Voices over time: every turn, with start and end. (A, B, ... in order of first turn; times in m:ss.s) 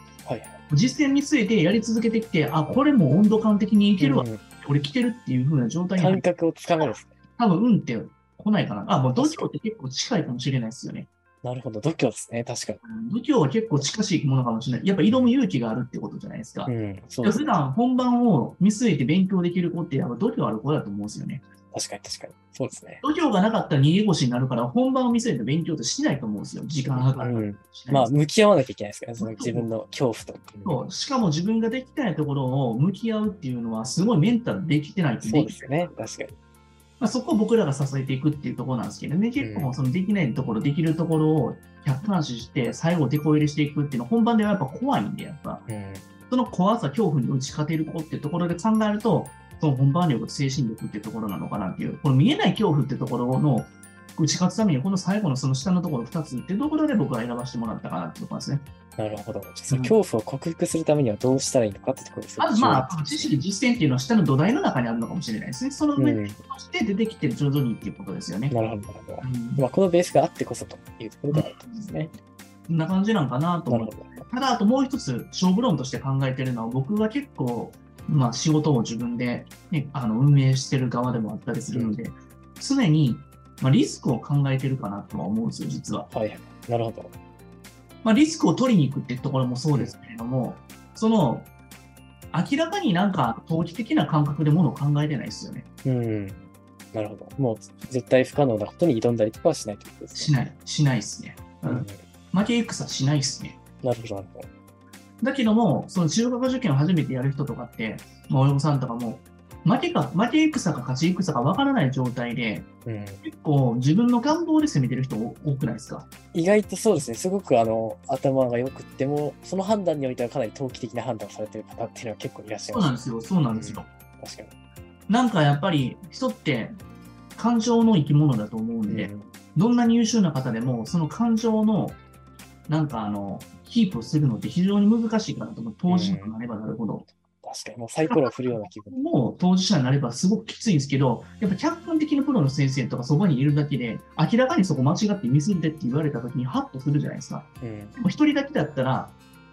0:00.2-0:00.6 A
0:00.7-0:06.2 B
0:04.0-0:04.4 A
0:06.0-0:07.1 A
0:06.8-0:11.1 B
0:09.1-0:09.5 A
0:11.4-0:12.8 A
0:12.8-0:16.7 B
0:15.1-0:15.3 A
0:16.6-0:17.6 A
0:17.2-0:21.4 B
0:21.7-0:23.0 A
0:23.0-0:28.1 B
0:26.9-0:30.8 A
0:29.2-0:29.7 B
0:30.6-0:35.6 B
0:35.2-0:36.4 A
0:37.0-0:45.6 B
0:39.4-0:39.8 A
0:45.7-0:46.0 A
0:46.3-0:58.7 B
0:59.0-1:03.3 A
0:59.7-0:59.9 B
1:02.4-1:08.6 B
1:06.0-1:06.4 A
1:08.5-1:12.1 A
1:09.2-1:09.6 B
1:11.3-1:11.9 B
1:12.7-1:26.1 B
1:13.7-1:14.2 A
1:21.7-1:22.0 A
1:26.1-1:27.1 A
1:28.0-1:31.5 B
1:32.3-1:35.6 B
1:35.8-1:36.4 A
1:36.9-1:40.3 A
1:40.1-1:43.6 B
1:41.6-1:42.0 A
1:43.8-1:44.5 A
1:45.2-1:52.7 B
1:52.8-1:53.2 A
1:53.2-1:56.0 B
1:56.3-2:04.5 A
2:02.7-2:03.8 B
2:05.1-2:06.8 B
2:07.4-2:12.0 B
2:08.9-2:09.3 A
2:12.7-2:17.1 B
2:15.9-2:16.4 A
2:17.4-2:19.0 A
2:18.0-2:29.1 B
2:27.6-2:28.0 A